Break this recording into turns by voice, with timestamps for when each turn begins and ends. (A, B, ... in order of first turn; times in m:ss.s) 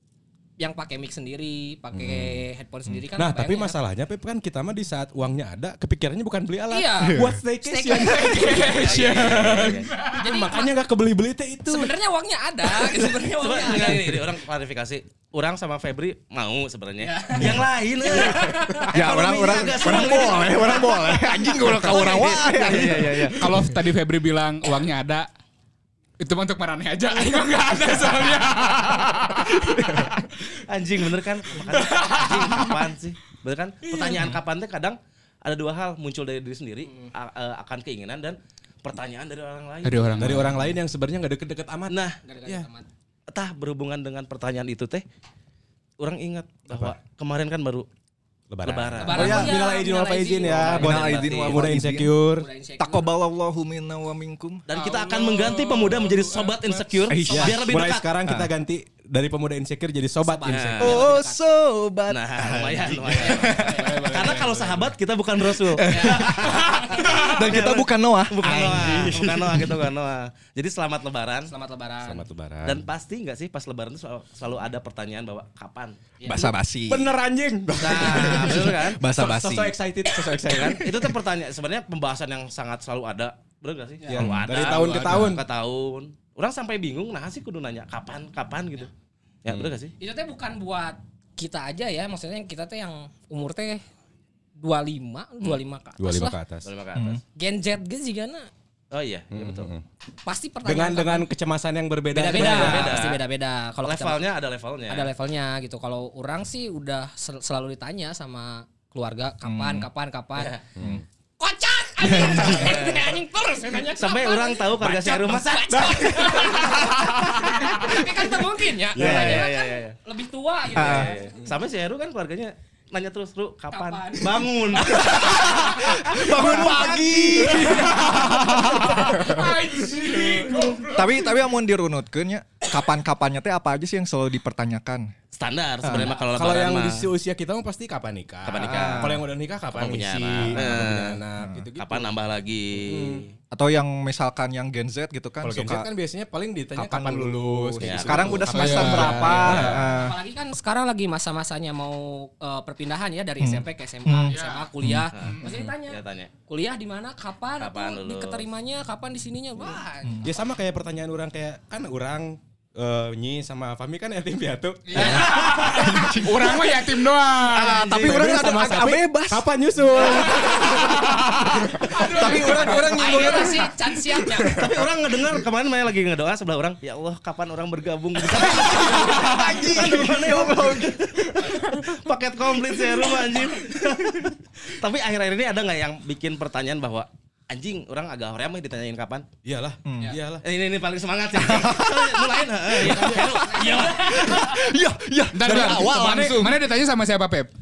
0:00.6-0:03.8 A
0:02.0-0:02.3 B
0:03.2-0:11.9 B
0:06.7-0:08.7 A
0:07.0-0:07.4 C
0:08.0-0:10.2 D
0:08.4-0:09.9 E
0:10.1-0:10.8 A
0:11.7-0:14.2 A
0:13.0-0:23.4 E
0:17.0-0:18.9 A
0:17.4-0:17.6 C
0:18.9-0:23.5 C
0:22.8-0:25.3 D
0:26.2-0:30.2 D
0:30.7-0:40.5 E
0:31.6-0:32.8 D
0:34.1-0:34.4 C
0:36.8-0:37.1 A
0:39.8-0:40.7 D
0:40.2-0:42.7 B
0:41.9-0:42.2 E
0:42.2-0:42.9 A
0:43.3-0:45.0 E
0:46.0-0:47.9 E
0:46.7-0:47.0 B
0:48.5-0:52.5 B
0:48.6-0:49.6 E
0:49.0-0:51.2 A
0:50.4-0:51.7 E
0:50.7-0:52.2 C
0:52.3-0:53.2 A
0:52.8-0:54.6 C
0:54.7-0:58.1 E
0:54.7-0:57.1 D
0:57.1-0:57.6 C
0:57.3-0:57.6 A
0:57.3-1:01.0 B
0:58.2-0:58.5 C
1:00.2-1:01.4 A
1:00.5-1:01.1 E
1:00.8-1:03.8 C
1:02.1-1:11.5 E
1:03.3-1:04.9 D
1:05.7-1:09.9 C
1:05.9-1:06.4 A
1:07.0-1:07.4 D
1:11.5-1:12.3 A
1:12.0-1:12.8 B
1:12.6-1:16.0 E
1:16.2-1:16.6 A
1:16.3-1:17.1 C
1:16.9-1:21.0 B
1:17.8-1:19.1 E
1:18.0-1:19.8 C
1:20.4-1:28.9 E
1:24.1-1:25.4 B
1:24.5-1:25.3 D
1:29.4-1:29.9 E
1:30.0-1:33.8 A
1:34.6-1:36.4 A
1:36.0-1:36.7 B
1:36.6-1:37.2 E
1:36.9-1:37.2 C
1:37.4-1:38.5 A
1:38.9-1:39.7 E
1:39.3-1:39.8 B
1:40.2-1:41.3 A
1:40.6-1:43.0 B
1:42.1-1:44.4 A
1:42.2-1:43.2 E
1:43.8-1:45.1 E
1:44.9-1:50.6 A
1:49.4-1:49.9 C
1:50.4-1:50.6 E
1:50.8-1:51.0 B
1:51.4-2:01.3 A
1:52.0-1:52.7 C
1:52.4-1:53.2 E
1:53.9-1:56.3 E
1:55.8-1:56.9 B
1:58.9-1:59.4 B
1:59.0-1:59.4 C
1:59.0-2:00.0 E
2:00.7-2:07.6 E
2:00.8-2:01.1 C
2:03.7-2:05.1 A
2:04.8-2:09.2 C
2:06.4-2:07.9 B
2:07.4-2:11.4 D
2:09.0-2:10.4 B
2:10.1-2:15.1 C
2:15.3-2:17.1 E
2:15.8-2:16.2 C
2:16.0-2:22.2 B
2:18.4-2:19.2 E
2:18.6-2:19.2 C
2:19.7-2:21.2 E
2:21.4-2:21.7 C
2:21.8-2:23.3 E
2:22.8-2:23.2 B
2:23.5-2:25.9 C
2:25.4-2:29.9 B
2:26.8-2:30.2 C
2:27.8-2:28.4 E
2:28.4-2:29.5 D
2:28.7-2:40.3 A
2:33.4-2:35.1 C
2:34.3-2:34.7 D
2:35.1-2:36.3 E
2:35.2-2:35.6 D
2:37.6-2:38.4 E
2:40.0-2:40.3 C
2:40.2-2:45.2 B
2:44.9-2:47.8 D
2:45.0-2:45.8 E
2:45.1-2:46.9 C
2:47.5-2:48.2 E
2:47.5-2:51.0 C
2:47.8-2:52.6 B
2:50.0-2:50.5 E
2:50.9-2:53.4 D
2:51.8-2:54.8 C
2:52.7-2:54.6 A
2:54.5-3:09.3 E
2:58.3-3:01.8 C
3:09.4-3:10.4 B
3:09.8-3:10.2 C
3:10.4-3:14.6 E
3:11.3-3:16.6 C
3:12.8-3:14.2 B
3:13.2-3:14.4 A
3:15.3-3:17.5 D
3:15.4-3:16.2 B